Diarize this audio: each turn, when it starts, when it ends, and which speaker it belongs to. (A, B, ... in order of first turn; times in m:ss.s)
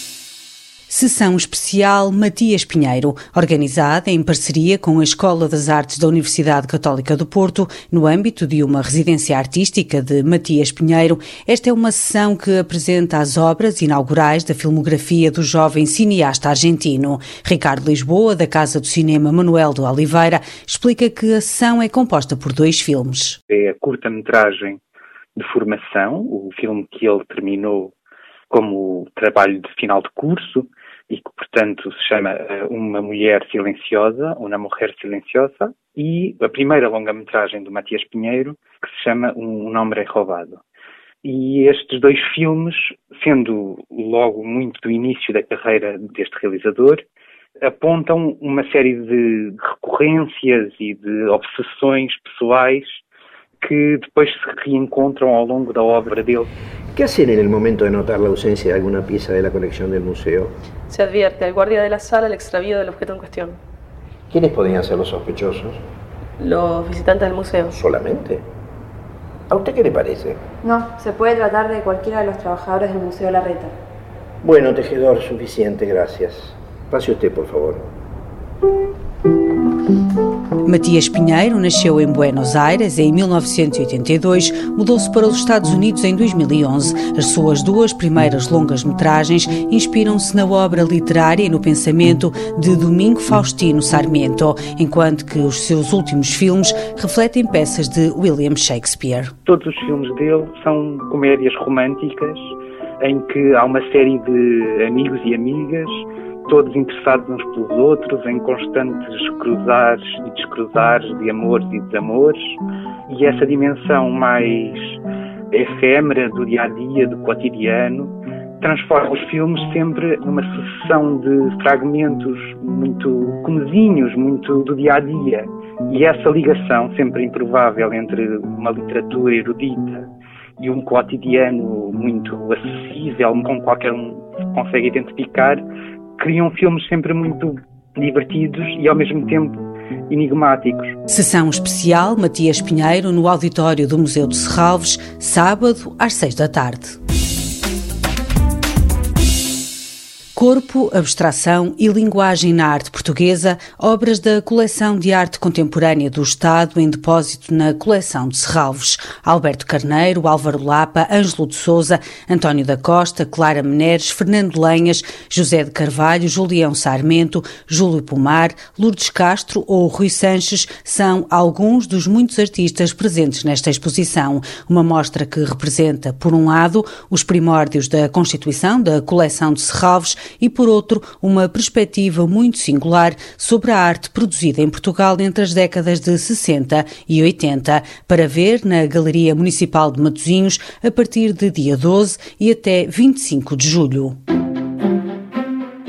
0:00.9-0:23.4 A
0:23.5-0:24.8 B
0:25.4-0:27.9 B
0:28.5-0:40.6 B
0:41.2-0:47.0 B
0:47.6-0:53.0 B
0:53.6-0:56.5 B
0:56.9-1:00.5 C
1:00.9-1:03.6 D
1:04.3-1:05.8 C
1:06.4-1:07.7 D
1:07.7-1:08.4 C
1:09.5-1:10.4 C
1:10.6-1:13.7 E
1:14.4-1:17.9 C
1:20.6-1:39.3 A
1:39.4-1:52.4 B
1:53.1-1:55.0 B
1:55.5-2:15.6 B
2:16.2-2:21.0 B
2:21.1-2:27.0 A
2:30.4-3:14.2 A